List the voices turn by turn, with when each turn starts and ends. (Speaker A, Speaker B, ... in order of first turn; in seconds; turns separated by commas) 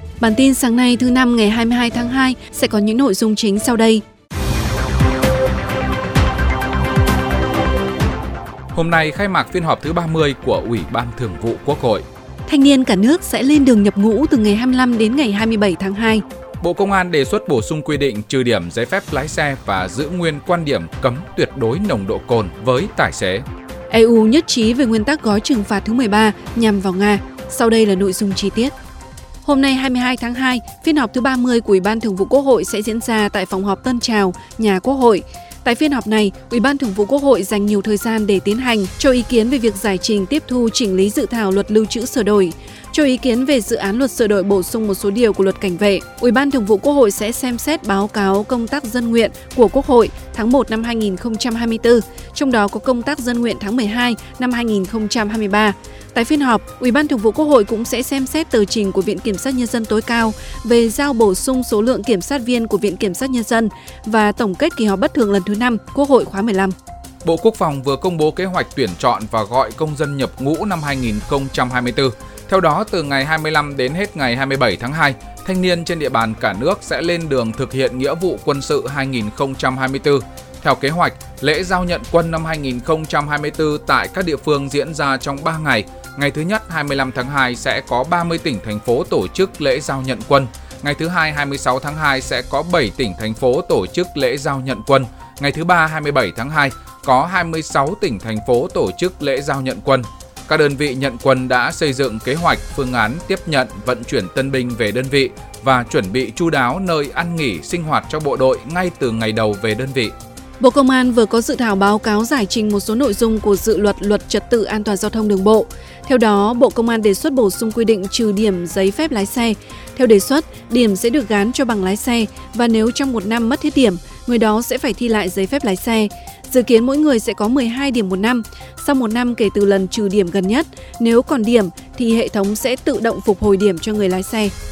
Speaker A: 0.2-4.0, Speaker B: 8.7-12.0, Speaker A: 12.5-16.2, Speaker B: 16.6-23.4, Speaker A: 23.9-28.7, Speaker A: 29.4-66.7, Speaker B: 67.2-110.1, Speaker A: 110.6-134.5